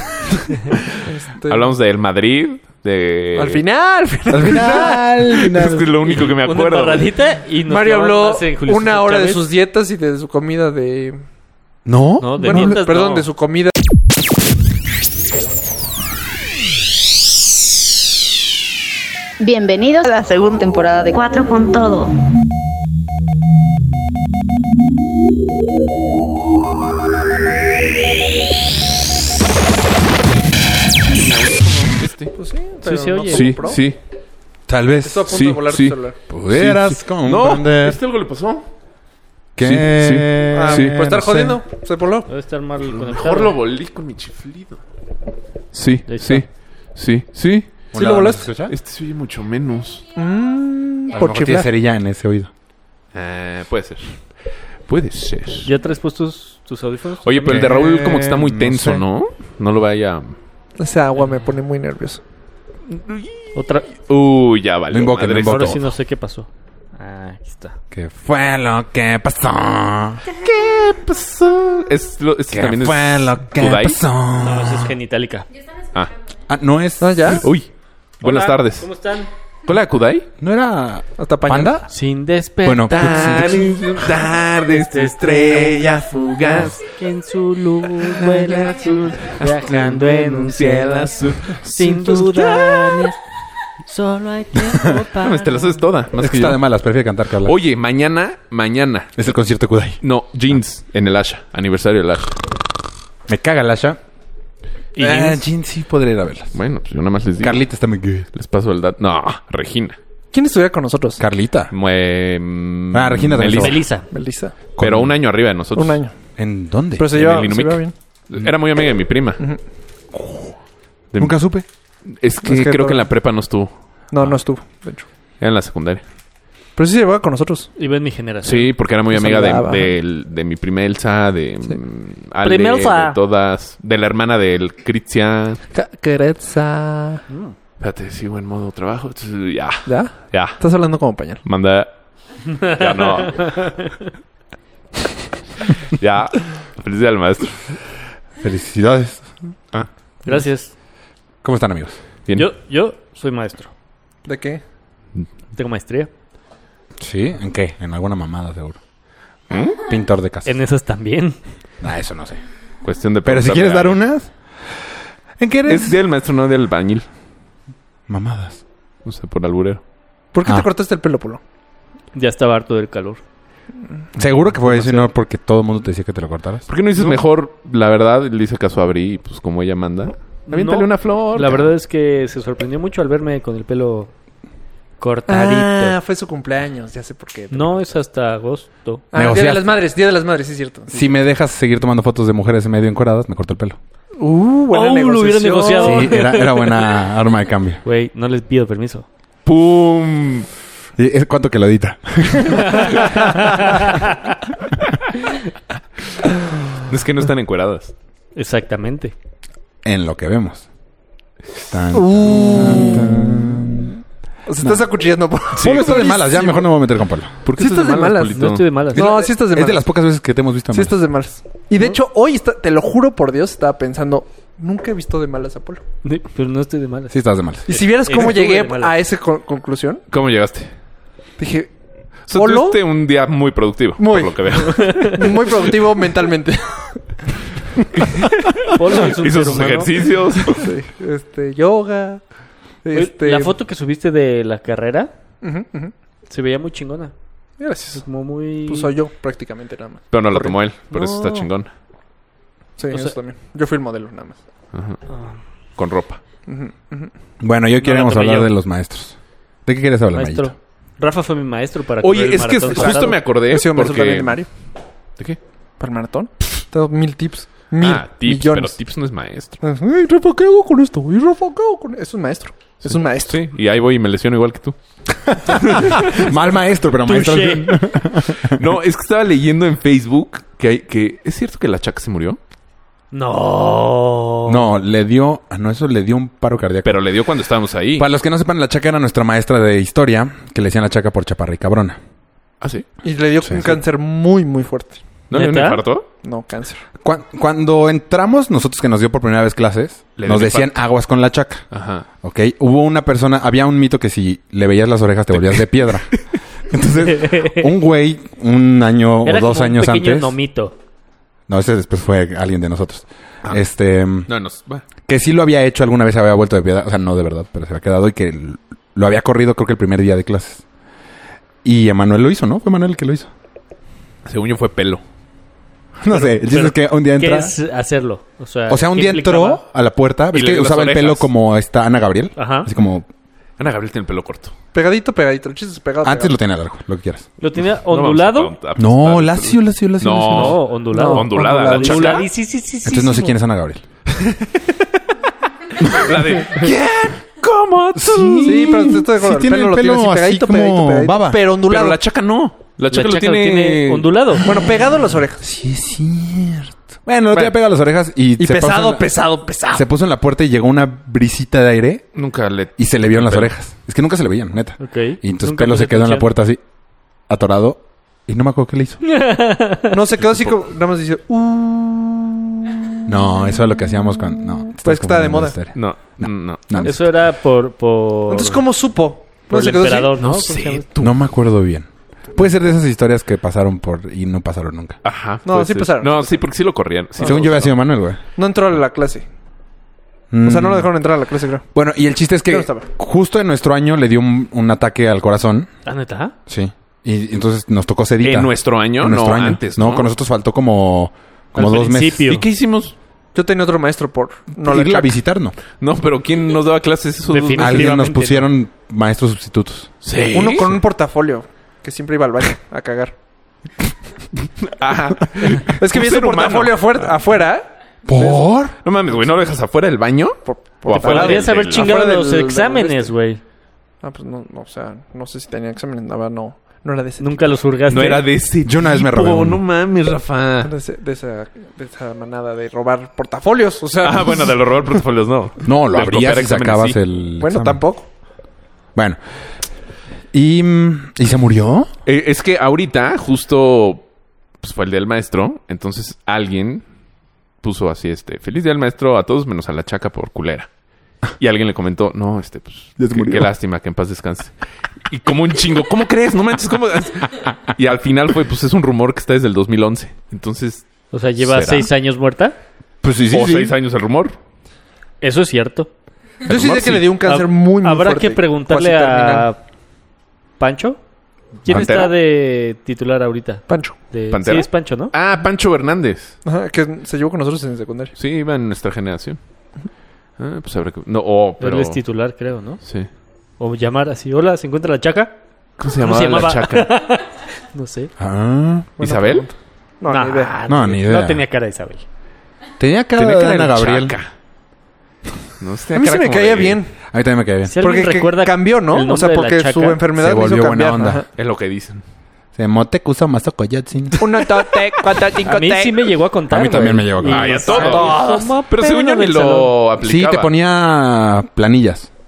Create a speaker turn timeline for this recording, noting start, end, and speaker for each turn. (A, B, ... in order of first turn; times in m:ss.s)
0:01.0-0:01.7 A
0:01.4-0:03.6 B
0:03.4-0:05.5 A
0:04.3-0:05.9 C
0:05.4-0:07.1 B
0:06.1-0:09.5 D
0:07.7-0:11.2 A
0:11.8-0:12.8 C
0:12.2-0:13.3 D
0:12.4-0:13.7 A
0:19.4-0:22.1 E
0:31.0-0:32.3 B
0:32.3-0:33.8 A
0:32.8-0:33.6 D
0:33.3-0:34.0 B
0:34.7-0:35.4 C
0:35.0-0:36.2 A
0:35.3-0:36.0 B
0:36.3-0:38.0 C
0:36.5-0:38.6 B
0:39.6-0:41.6 C
0:39.6-0:41.0 B
0:40.5-0:42.3 A
0:42.3-0:43.6 D
0:42.9-0:44.8 B
0:45.7-0:47.8 B
0:46.1-0:46.4 D
0:47.9-0:48.7 C
0:47.9-0:48.5 A
0:48.7-0:50.0 B
0:50.2-0:51.7 A
0:51.1-0:52.5 C
0:53.1-0:54.2 B
0:54.9-0:55.7 B
0:55.6-0:57.5 D
0:57.2-1:00.3 B
0:57.4-0:59.0 C
1:00.8-1:02.2 A
1:02.9-1:03.5 B
1:03.5-1:03.9 D
1:04.1-1:05.8 B
1:04.9-1:05.8 C
1:05.4-1:07.8 D
1:07.9-1:10.2 C
1:10.4-1:14.0 B
1:12.5-1:14.9 C
1:14.4-1:15.5 D
1:16.5-1:17.5 C
1:17.0-1:17.4 A
1:17.3-1:17.7 B
1:18.2-1:18.9 B
1:18.2-1:19.3 D
1:19.6-1:20.3 B
1:20.4-1:21.9 C
1:21.2-1:21.8 A
1:21.9-1:23.5 D
1:22.6-1:24.2 C
1:22.9-1:26.8 B
1:24.7-1:26.0 D
1:26.5-1:33.2 D
1:28.0-1:33.1 B
1:33.8-1:35.8 D
1:35.2-1:36.6 B
1:36.2-1:37.6 C
1:37.4-1:39.4 B
1:39.2-1:40.0 C
1:40.0-1:42.4 B
1:43.3-1:44.0 C
1:45.0-1:46.5 C
1:45.0-1:45.4 D
1:46.5-1:47.6 B
1:47.4-1:48.3 C
1:48.3-1:50.0 B
1:50.3-1:51.2 A
1:51.2-1:51.7 C
1:51.7-1:53.8 B
1:52.9-1:53.8 C
1:53.6-1:54.1 D
1:54.1-1:54.6 A
1:54.8-1:55.1 C
1:54.8-1:56.0 B
1:55.7-1:56.1 A
1:56.4-1:57.2 C
1:57.0-1:57.9 A
1:57.1-1:59.4 B
2:00.1-2:00.5 C
2:01.1-2:01.4 B
2:01.2-2:01.6 C
2:02.1-2:03.7 B
2:02.4-2:03.1 A
2:04.1-2:05.1 A
2:05.4-2:06.0 B
2:06.8-2:07.7 A
2:07.8-2:08.7 D
2:08.4-2:15.6 B
2:09.1-2:09.9 A
2:12.4-2:13.2 D
2:15.7-2:17.2 A
2:17.3-2:17.5 D
2:17.8-2:20.6 B
2:19.8-2:21.4 A
2:21.4-2:21.9 B
2:22.5-2:23.9 D
2:22.6-2:23.7 B
2:25.9-2:27.6 B
2:28.4-2:29.3 C
2:30.2-2:30.7 D
2:31.4-2:32.0 C
2:32.3-2:33.7 D
2:34.2-2:34.6 A
2:35.5-2:36.1 D
2:37.0-2:38.8 C
2:39.5-2:39.8 B
2:39.8-2:40.6 C
2:40.4-2:41.4 D
2:41.8-2:42.4 C
2:42.8-2:44.0 B
2:43.2-2:46.0 C
2:45.7-2:47.0 B
2:48.1-2:48.6 C
2:49.0-2:49.8 B
2:50.3-2:51.4 A
2:52.1-2:53.2 D
2:54.2-2:56.6 C
2:54.6-2:55.1 D
2:56.7-3:01.7 B
3:00.5-3:04.1 D
3:05.0-3:06.0 D
3:05.3-3:07.8 A
3:07.5-3:09.0 D
3:09.1-3:11.1 A
3:09.1-3:09.8 C
3:10.9-3:13.8 C
3:14.2-3:16.1 A
3:14.7-3:17.0 D
3:15.8-3:17.8 C
3:17.8-3:19.0 D
3:19.4-3:20.5 B
3:21.0-3:23.0 C
3:22.5-3:24.3 D
3:26.8-3:27.9 B
3:28.4-3:29.1 D
3:29.8-3:30.6 C
3:31.6-3:34.0 C
3:31.9-3:33.5 A
3:34.4-3:36.7 A
3:35.5-3:36.1 B
3:35.5-3:37.4 C
3:37.4-3:38.8 B
3:37.6-3:38.4 A
3:38.3-3:39.0 D
3:38.9-3:39.8 A
3:39.0-3:41.0 C
3:40.7-3:45.8 A
3:46.0-3:47.1 D
3:47.1-3:47.8 C
3:47.7-3:50.0 A
3:47.7-3:48.9 D
3:50.1-3:50.7 B
3:51.4-3:51.7 A
3:52.3-3:55.8 B
3:52.3-3:52.8 A
3:54.0-3:57.0 A
3:54.9-3:55.2 D
3:57.8-4:00.7 B
3:58.7-3:59.9 D
4:00.6-4:02.2 A
4:02.8-4:03.5 A
4:02.9-4:05.1 D
4:05.4-4:05.9 A
4:06.3-4:07.1 D
4:07.6-4:08.0 A
4:07.9-4:08.9 D
4:08.6-4:11.4 A
4:10.1-4:11.7 B
4:12.8-4:14.4 A
4:14.7-4:15.0 B
4:15.1-4:15.3 D
4:15.8-4:16.2 B
4:16.5-4:17.1 A
4:17.4-4:20.5 C
4:17.8-4:18.5 D
4:20.1-4:23.2 D
4:22.0-4:24.5 B
4:22.7-4:24.5 A
4:25.8-4:28.8 A
4:27.8-4:29.6 B
4:29.6-4:33.4 A
4:32.8-4:34.8 B
4:35.3-4:36.3 B
4:35.4-4:38.6 C
4:37.0-4:37.8 D
4:38.4-4:42.4 B
4:43.1-4:44.7 D
4:44.4-4:47.0 C
4:46.8-4:48.1 B
4:48.0-4:52.0 C
4:52.6-4:52.9 B
4:53.0-4:55.0 A
4:55.3-4:56.1 B
4:55.3-4:55.8 D
4:56.2-4:56.8 A
4:57.0-5:01.6 C
5:00.2-5:00.8 B
5:01.7-5:02.1 B
5:02.2-5:10.4 C
5:07.2-5:07.7 D
5:09.2-5:10.7 D
5:11.5-5:14.3 C
5:14.3-5:14.8 B
5:15.0-5:20.6 C
5:21.6-5:23.3 C
5:24.2-5:25.0 B
5:26.0-5:27.5 C
5:26.1-5:29.6 D
5:28.7-5:33.1 C
5:30.3-5:31.3 B
5:32.4-5:32.7 D
5:33.6-5:34.5 B
5:34.7-5:36.3 A
5:36.0-5:37.2 C
5:37.4-5:38.5 D
5:37.9-5:42.3 B
5:38.8-5:40.6 C
5:40.3-5:43.4 D
5:40.9-5:42.3 A
5:42.8-5:43.8 C
5:45.6-5:49.0 B
5:45.8-5:46.1 C
5:47.9-5:51.4 C
5:48.4-5:52.0 A
5:51.7-5:54.6 B
5:52.9-5:54.5 D
5:54.4-5:55.4 A
5:55.4-5:59.1 C
5:58.4-5:59.8 A
5:59.7-6:02.1 C
6:02.1-6:03.5 B
6:02.8-6:06.6 C
6:04.8-6:06.3 D
6:07.3-6:09.0 C
6:09.0-6:10.0 D
6:09.9-6:13.1 A
6:13.1-6:17.0 C
6:14.8-6:15.6 A
6:15.7-6:16.8 B
6:16.8-6:18.6 D
6:18.3-6:20.2 A
6:19.5-6:20.9 D
6:20.2-6:21.2 B
6:21.0-6:25.0 C
6:25.0-6:27.8 B
6:25.4-6:26.4 A
6:27.2-6:27.5 A
6:27.2-6:28.2 C
6:28.4-6:29.2 A
6:30.3-6:30.9 C
6:30.4-6:31.6 A
6:31.7-6:35.7 C
6:32.5-6:32.8 A
6:35.8-6:36.3 D
6:36.5-6:42.2 C
6:38.2-6:40.1 B
6:41.5-6:42.4 D
6:42.2-6:42.9 B
6:43.3-6:45.2 A
6:44.6-6:45.6 C
6:45.8-6:48.0 B
6:47.3-6:48.5 D
6:47.5-6:49.9 C
6:50.0-6:50.8 B
6:50.3-6:53.1 A
6:54.6-6:56.8 B
6:55.4-6:58.4 A
6:58.0-6:58.8 C
6:58.8-7:01.9 B
7:00.4-7:03.1 A
7:00.9-7:03.4 D
7:04.0-7:07.4 A
7:07.2-7:08.3 D
7:07.9-7:10.7 B
7:08.6-7:09.6 C
7:10.6-7:14.6 A
7:14.0-7:17.0 B
7:15.6-7:17.8 C
7:17.4-7:18.1 A
7:20.3-7:21.9 C
7:22.0-7:24.0 B
7:24.6-7:26.8 B
7:27.6-7:30.7 B
7:31.4-7:34.5 B
7:33.0-7:33.5 C
7:35.0-7:41.9 B
7:41.1-7:42.6 D
7:43.0-7:43.8 C
7:43.3-7:44.4 B
7:45.2-7:45.9 D
7:46.4-7:47.1 C
7:46.5-7:49.5 A
7:47.2-7:49.6 D
7:50.6-7:51.0 D
7:51.6-7:55.1 D
7:51.7-7:52.1 B
7:53.7-7:54.0 A
7:54.3-7:56.4 B
7:56.4-7:58.1 A
7:58.2-7:59.4 B
8:00.4-8:02.0 B
8:01.6-8:02.8 D
8:02.8-8:03.1 B
8:03.6-8:05.3 D
8:05.8-8:06.9 B
8:06.0-8:08.1 D
8:08.2-8:08.9 C
8:09.0-8:10.6 A
8:09.0-8:09.5 B
8:10.1-8:12.0 D
8:10.6-8:11.4 C
8:12.8-8:14.2 C
8:13.2-8:14.3 B
8:15.6-8:16.8 B
8:15.9-8:16.9 A
8:17.1-8:17.7 C
8:17.6-8:20.0 D
8:17.8-8:21.3 A
8:20.2-8:21.2 C
8:21.4-8:22.0 B
8:22.5-8:24.4 C
8:24.2-8:26.1 A
8:25.4-8:29.7 D
8:26.5-8:27.8 C
8:27.3-8:30.5 B
8:27.6-8:28.5 A
8:30.0-8:32.1 C